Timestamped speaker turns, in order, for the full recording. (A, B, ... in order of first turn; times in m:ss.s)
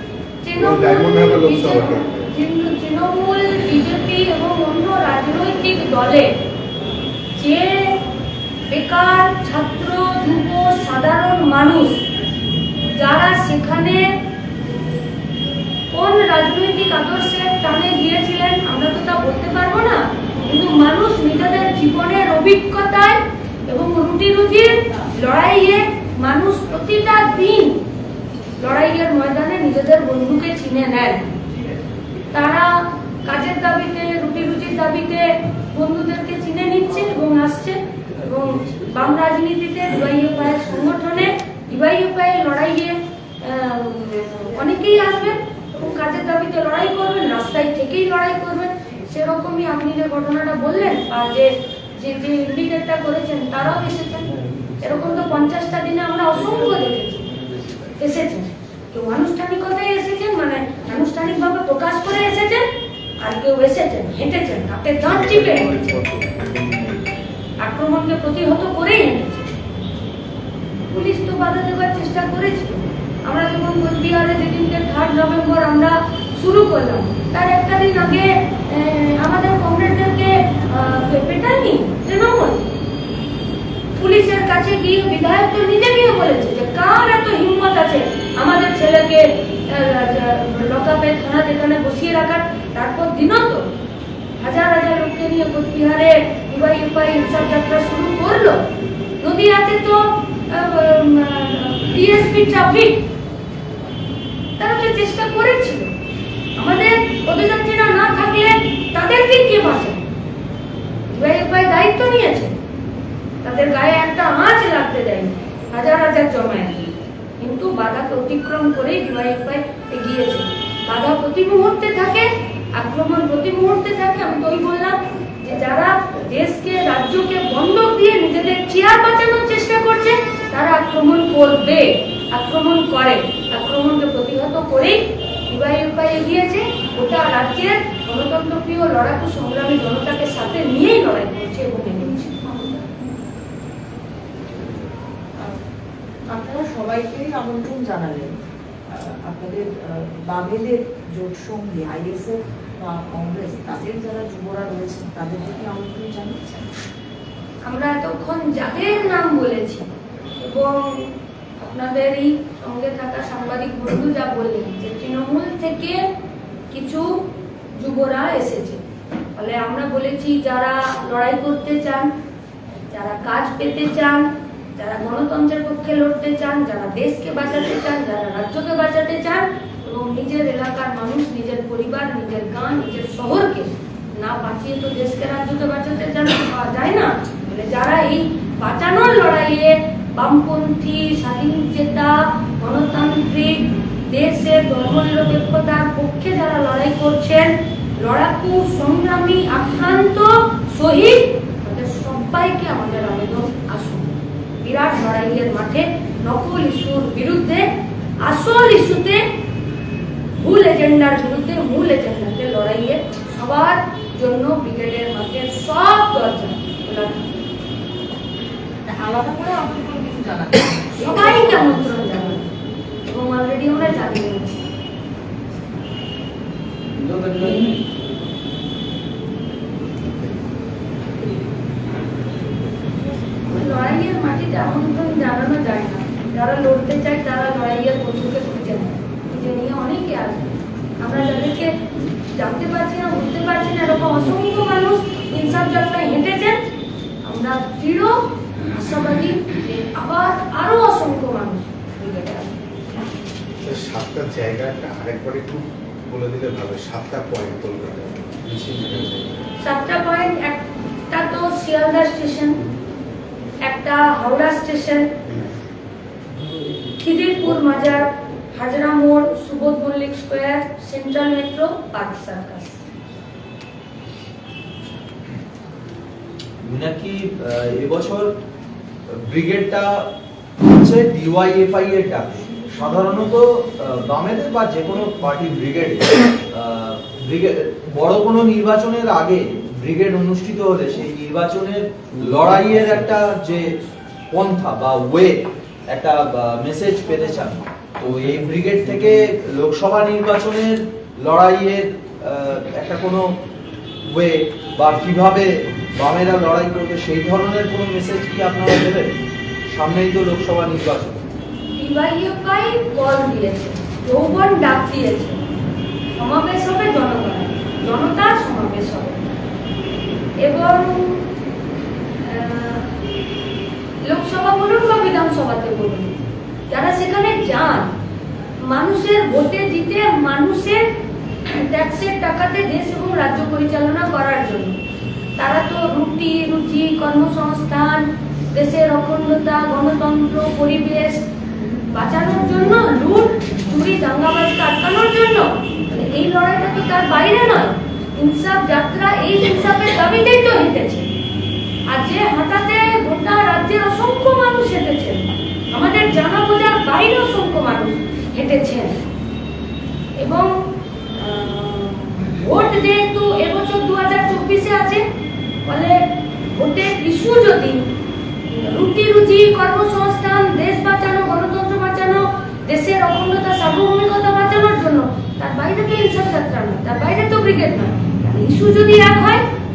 0:00.4-0:06.4 A
0:00.6-0:02.3 B
0:07.4-0:08.0 A
0:08.7-0:12.1 A
0:12.9-0:14.2 A
0:15.9-0:27.8 A
0:28.6-0:31.4 A
0:32.3-0:57.4 A
0:58.0-1:02.7 A
1:03.2-1:06.0 A
1:07.6-1:09.5 A
1:10.9-1:22.6 A
1:24.0-1:33.7 A
1:34.4-1:43.1 A
1:44.6-1:45.9 A
1:46.6-1:50.1 A
1:51.1-1:52.6 A
1:53.4-2:22.6 A
2:26.3-2:28.4 C
2:28.9-2:36.7 C
2:37.6-2:46.1 A
2:46.7-2:48.8 A
2:49.4-2:52.1 A
2:52.9-3:29.3 A
3:30.4-3:37.4 A
3:38.8-3:42.4 C
3:41.0-3:42.5 A
3:43.1-3:44.7 A
3:47.0-3:47.4 D
3:47.4-3:47.7 C
3:53.5-4:06.6 A
4:07.2-4:12.6 A
4:13.6-4:19.5 B
4:19.6-4:22.6 A
4:23.6-4:25.2 A
4:27.0-4:32.8 A
4:36.6-4:38.3 D
4:39.1-4:40.1 D
4:40.6-4:53.8 D
4:54.3-5:03.4 D
5:04.0-5:09.1 D
5:09.7-5:11.3 D
5:11.8-5:15.4 A
5:16.1-5:19.3 A
5:20.4-5:21.3 A
5:22.2-5:22.9 A
5:24.0-5:26.2 A
5:26.7-5:27.9 A
5:28.6-5:30.9 A
5:31.5-5:34.8 A
5:35.4-5:41.2 A
5:41.9-5:51.1 A
5:51.9-5:59.0 A
6:00.2-6:05.0 A
6:05.6-6:07.9 A
6:08.5-6:19.4 A